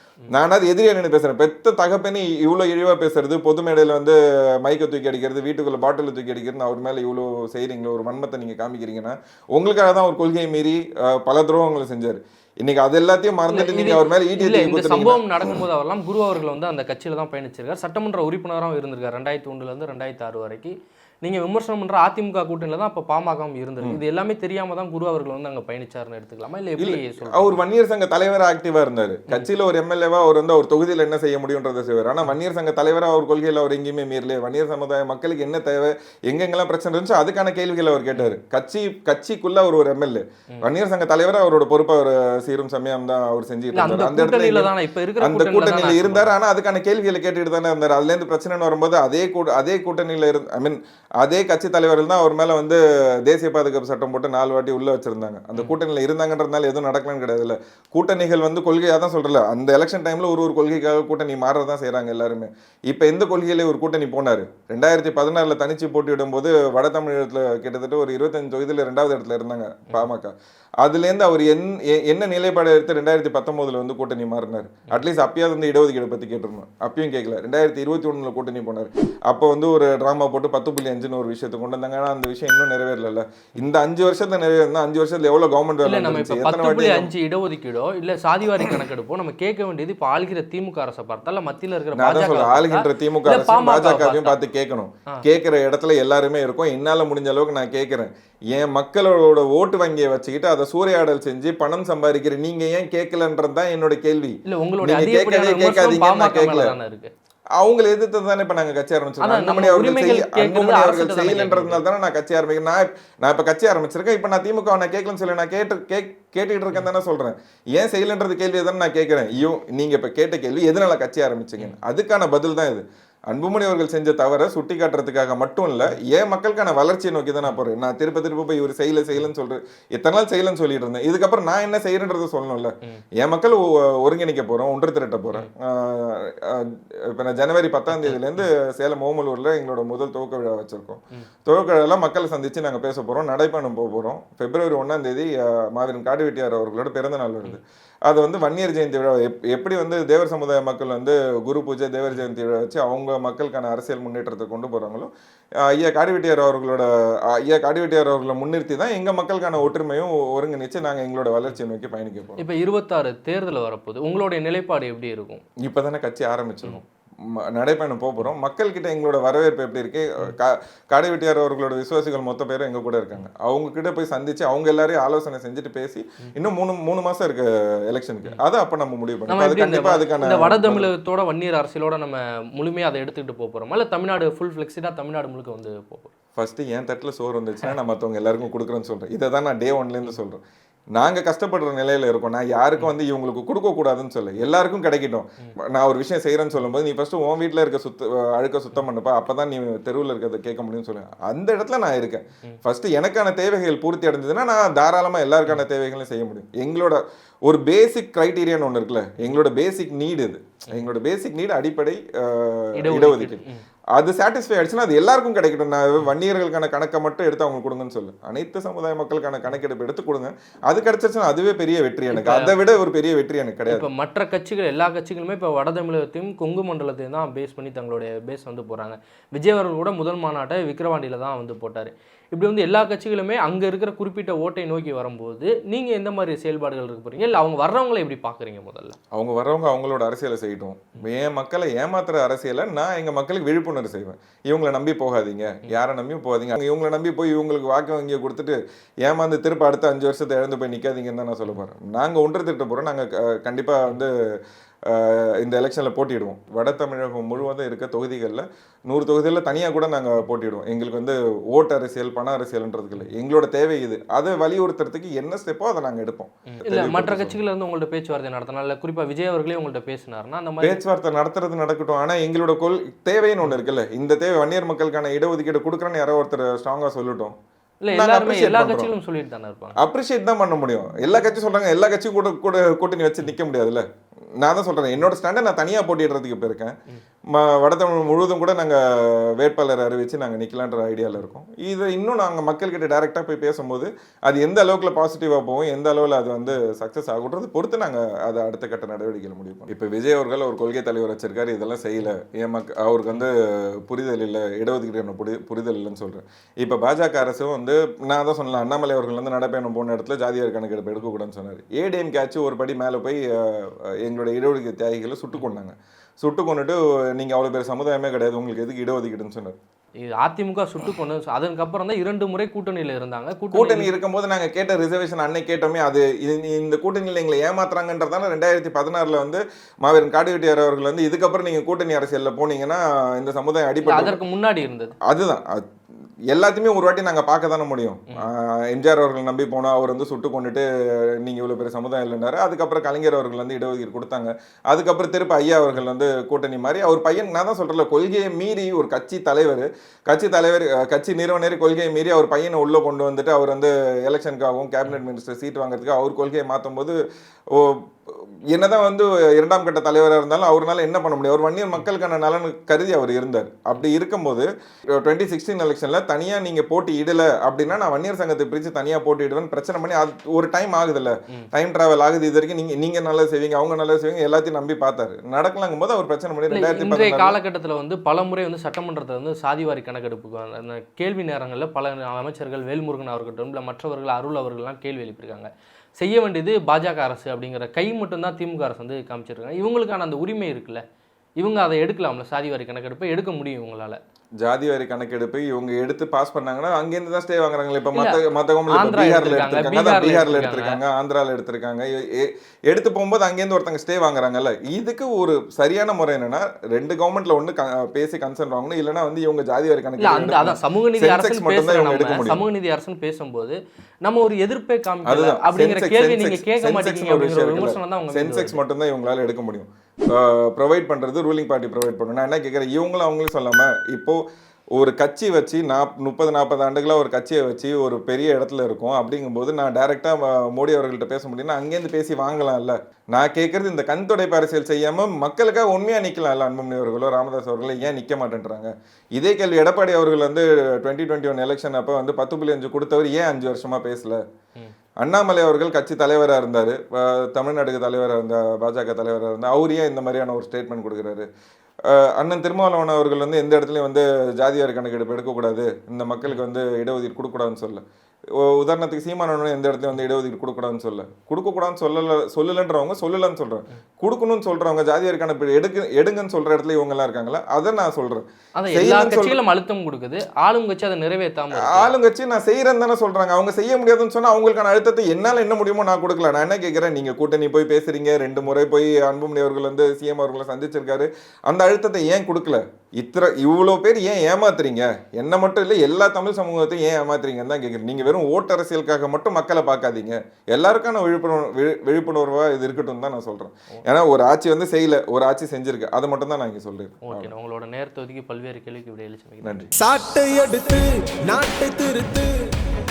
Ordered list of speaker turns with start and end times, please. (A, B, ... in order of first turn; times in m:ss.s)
0:00.3-0:15.6 A
0:13.5-0:27.6 B
0:26.8-1:27.1 A
0:43.7-0:46.3 B
1:25.8-1:34.4 B
1:31.9-1:46.7 A
1:44.5-1:47.1 B
1:47.6-2:35.1 A
1:49.2-1:51.8 B
2:17.9-2:18.4 B
2:35.6-2:42.4 A
2:42.4-2:45.4 B
2:45.6-3:00.9 A
2:59.3-3:06.1 B
3:06.4-3:10.4 A
3:10.9-3:33.4 A
3:32.8-3:33.6 B
3:34.0-3:43.9 A
3:42.1-3:42.6 B
3:43.7-3:59.0 B
3:59.1-4:14.2 A
4:14.8-4:27.4 A
4:26.5-4:30.8 B
4:30.6-4:37.4 A
4:37.8-4:39.8 B
4:37.9-4:38.9 A
4:39.8-4:43.8 A
4:44.4-4:46.8 A
4:47.3-5:19.6 A
5:20.0-5:23.9 B
5:23.5-5:34.2 A
5:33.8-5:34.9 B
5:35.0-5:35.6 A
5:36.3-5:40.7 A
5:41.2-5:57.0 A
5:57.5-6:17.4 A
6:16.5-6:30.8 B
6:31.4-6:34.0 B
6:34.4-6:52.4 A
6:37.9-6:38.2 B
6:38.7-6:40.8 B
6:50.0-6:58.6 B
6:55.1-7:04.2 A
7:04.8-7:24.2 A
7:25.0-7:31.3 A
7:31.9-7:37.8 A
7:38.4-7:49.4 A
7:48.6-7:51.9 B
7:51.5-8:17.3 A
8:17.1-8:19.7 B
8:19.4-8:19.7 A
8:19.8-8:22.5 C